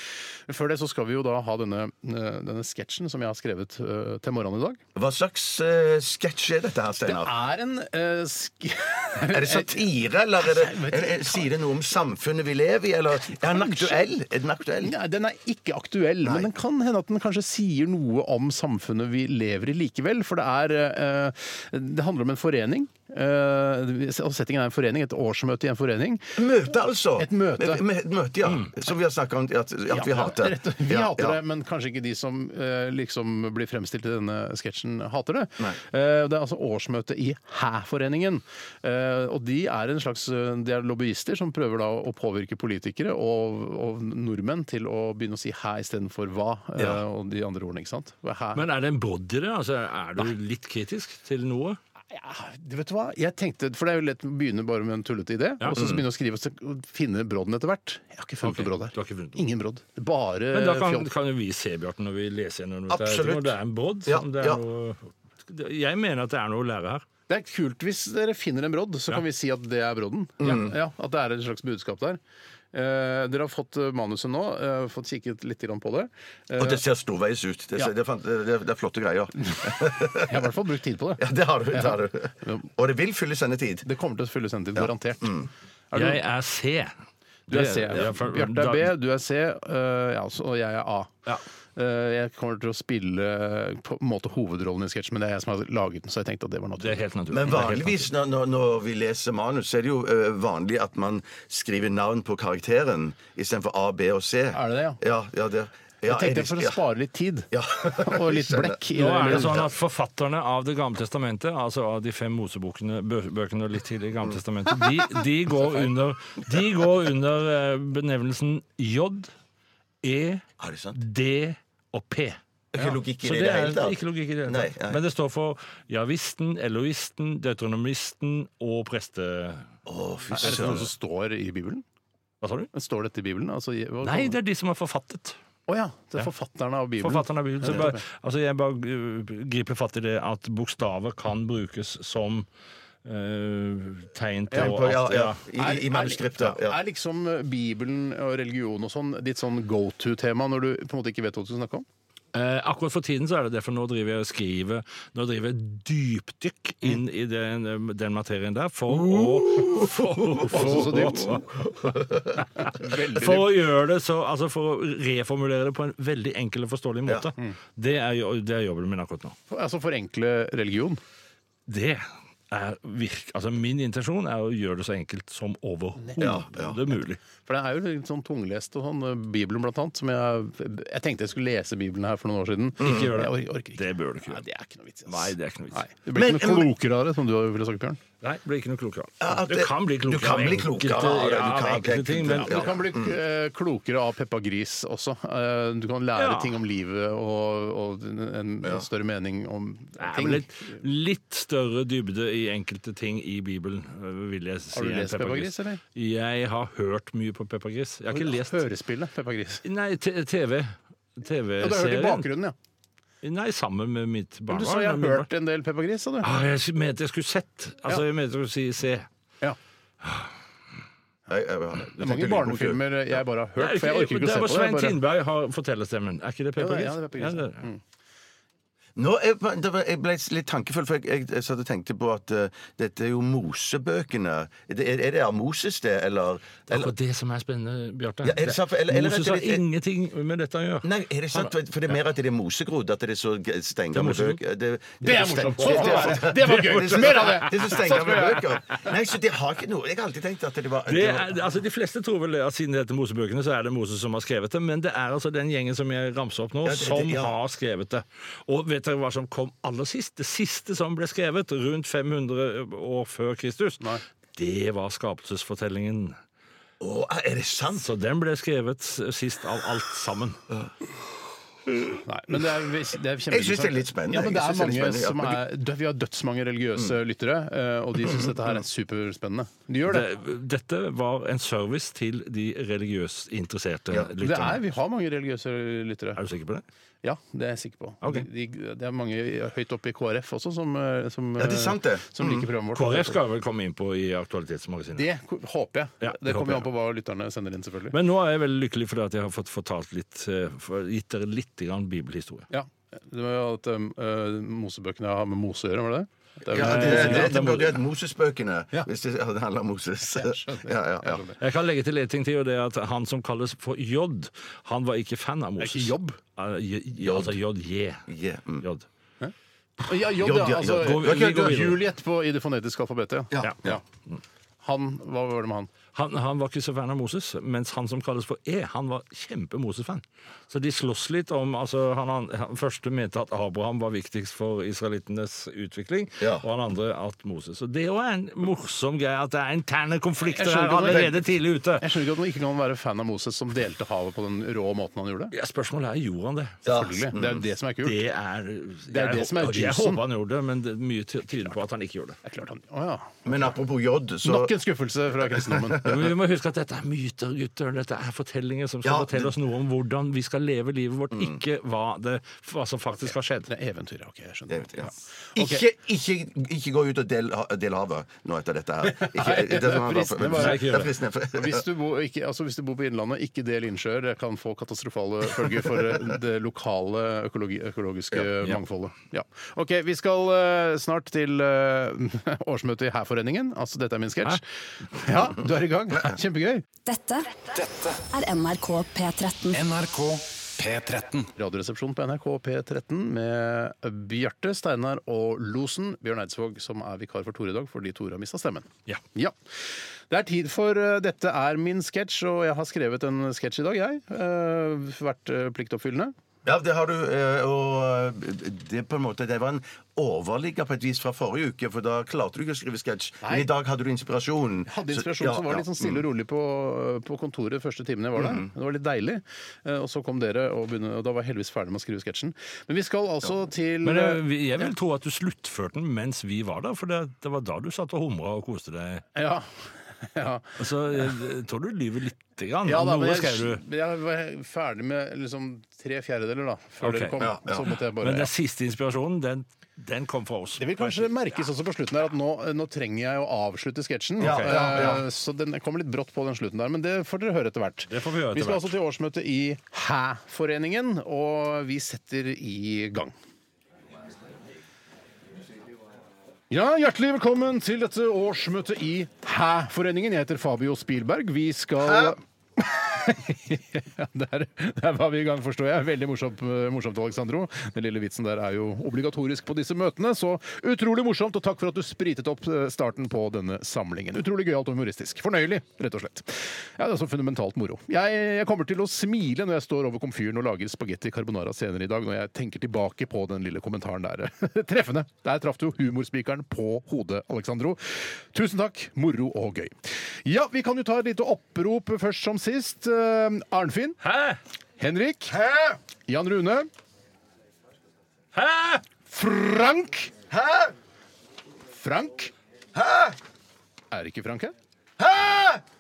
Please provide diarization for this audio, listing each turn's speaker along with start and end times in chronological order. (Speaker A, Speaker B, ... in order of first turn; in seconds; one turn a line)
Speaker A: 0.5-4.8
Speaker B: 5.0-7.4
Speaker A: 7.0-9.9
Speaker B: 9.3-15.0
Speaker A: 10.4-11.5
Speaker A: 13.3-14.1
Speaker A: 14.8-26.4
Speaker B: 16.2-16.5
Speaker B: 26.4-31.4
Speaker A: 27.2-27.8
Speaker A: 29.9-48.6
Speaker C: 48.5-51.8
Speaker A: 52.1-61.1
Speaker B: 55.8-56.0
Speaker C: 58.4-59.4
Speaker C: 60.5-67.0
Speaker B: 62.9-64.6
Speaker A: 67.3-72.2
Speaker B: 70.4-70.8
Speaker A: 72.7-76.8
Speaker B: 76.5-80.4
Speaker A: 79.5-82.7
Speaker B: 81.2-83.9
Speaker A: 83.8-85.4
Speaker B: 84.8-85.5
Speaker A: 85.9-86.2
Speaker C: 85.9-86.9
Speaker C: 87.5-88.9
Speaker A: 87.5-91.2
Speaker A: 91.8-97.0
Speaker C: 96.8-98.1
Speaker B: 97.3-106.8
Speaker A: 104.5-105.0
Speaker A: 106.1-109.7
Speaker B: 107.5-109.7
Speaker C: 109.0-119.3
Speaker B: 114.2-115.0
Speaker C: 120.0-120.4
Speaker B: 120.6-121.0
Speaker C: 121.0-122.4
Speaker B: 122.7-125.0
Speaker C: 123.2-129.6
Speaker B: 129.9-130.9
Speaker A: 130.3-131.8
Speaker C: 132.4-132.7
Speaker A: 132.7-134.4
Speaker C: 134.0-135.4
Speaker A: 135.7-138.0
Speaker C: 137.0-142.5
Speaker C: 143.1-145.4
Speaker B: 144.5-146.8
Speaker A: 145.6-151.9
Speaker C: 152.3-161.4
Speaker B: 158.9-162.5
Speaker A: 160.4-161.4
Speaker A: 162.5-163.5
Speaker C: 162.7-169.4
Speaker A: 169.5-171.0
Speaker C: 171.7-177.2
Speaker A: 176.0-176.4
Speaker B: 176.2-176.8
Speaker A: 177.4-188.0
Speaker C: 182.8-184.4
Speaker C: 185.1-185.9
Speaker B: 186.1-186.7
Speaker C: 188.2-192.7
Speaker B: 189.2-193.2
Speaker A: 192.4-200.8
Speaker C: 196.2-196.6
Speaker C: 200.0-208.6
Speaker A: 204.7-205.8
Speaker A: 208.1-209.6
Speaker C: 209.7-212.3
Speaker A: 211.6-212.6
Speaker C: 213.2-215.3
Speaker A: 214.5-216.3
Speaker C: 216.2-219.1
Speaker B: 221.3-222.8
Speaker A: 222.0-225.0
Speaker C: 223.6-227.7
Speaker A: 226.6-227.8
Speaker B: 229.0-236.9
Speaker C: 236.7-240.9
Speaker B: 238.2-239.6
Speaker B: 240.8-251.4
Speaker C: 243.9-244.4
Speaker A: 245.0-248.4
Speaker C: 245.3-248.8
Speaker C: 250.9-266.2
Speaker B: 256.6-257.4
Speaker B: 266.8-267.9
Speaker C: 267.8-270.4
Speaker A: 272.1-280.1
Speaker B: 273.3-275.4
Speaker C: 279.9-284.6
Speaker A: 284.2-286.2
Speaker C: 286.2-286.6
Speaker A: 287.0-293.2
Speaker B: 291.4-292.5
Speaker C: 292.8-295.1
Speaker A: 295.0-298.0
Speaker C: 296.0-296.7
Speaker C: 297.9-302.5
Speaker A: 302.5-307.3
Speaker B: 306.5-311.2
Speaker C: 306.5-307.8
Speaker A: 310.1-311.4
Speaker C: 311.4-318.1
Speaker A: 315.6-316.2
Speaker B: 317.0-317.4
Speaker B: 318.1-318.7
Speaker C: 318.6-318.9
Speaker A: 319.2-323.8
Speaker B: 320.2-321.7
Speaker C: 320.7-321.8
Speaker B: 323.3-323.8
Speaker A: 324.6-325.7
Speaker C: 325.9-341.9
Speaker B: 336.2-336.4
Speaker A: 340.2-341.1
Speaker B: 340.9-341.2
Speaker A: 341.8-345.3
Speaker C: 345.3-346.6
Speaker B: 346.6-347.4
Speaker A: 346.7-348.0
Speaker C: 347.8-352.2
Speaker A: 348.9-350.0
Speaker A: 352.2-353.2
Speaker B: 353.2-354.6
Speaker A: 354.2-355.9
Speaker B: 355.2-356.0
Speaker C: 355.9-363.5
Speaker B: 358.8-359.4
Speaker B: 361.1-361.4
Speaker A: 363.0-365.6
Speaker B: 364.5-371.6
Speaker A: 368.8-370.8
Speaker C: 370.3-370.9
Speaker A: 371.3-386.6
Speaker B: 375.6-376.0
Speaker D: 386.9-389.6
Speaker E: 387.6-388.0
Speaker E: 389.5-391.3
Speaker A: 391.4-399.4
Speaker A: 400.1-406.1
Speaker B: 406.4-416.0
Speaker A: 413.2-413.5
Speaker A: 414.7-424.7
Speaker B: 418.2-418.5
Speaker C: 423.8-429.1
Speaker A: 429.1-429.5
Speaker A: 430.0-430.6
Speaker C: 430.6-433.6
Speaker A: 432.6-438.3
Speaker C: 436.8-437.1
Speaker B: 437.2-437.7
Speaker C: 438.0-441.1
Speaker A: 440.6-453.1
Speaker B: 444.2-445.0
Speaker C: 444.2-444.9
Speaker C: 447.9-448.7
Speaker A: 456.5-494.0
Speaker B: 461.8-462.1
Speaker C: 494.0-494.4
Speaker A: 494.8-495.4
Speaker B: 495.3-495.8
Speaker A: 496.1-496.7
Speaker C: 498.3-498.8
Speaker A: 499.1-500.1
Speaker B: 500.3-500.7
Speaker A: 501.7-502.3
Speaker B: 502.8-503.2
Speaker A: 503.9-504.5
Speaker B: 505.0-505.6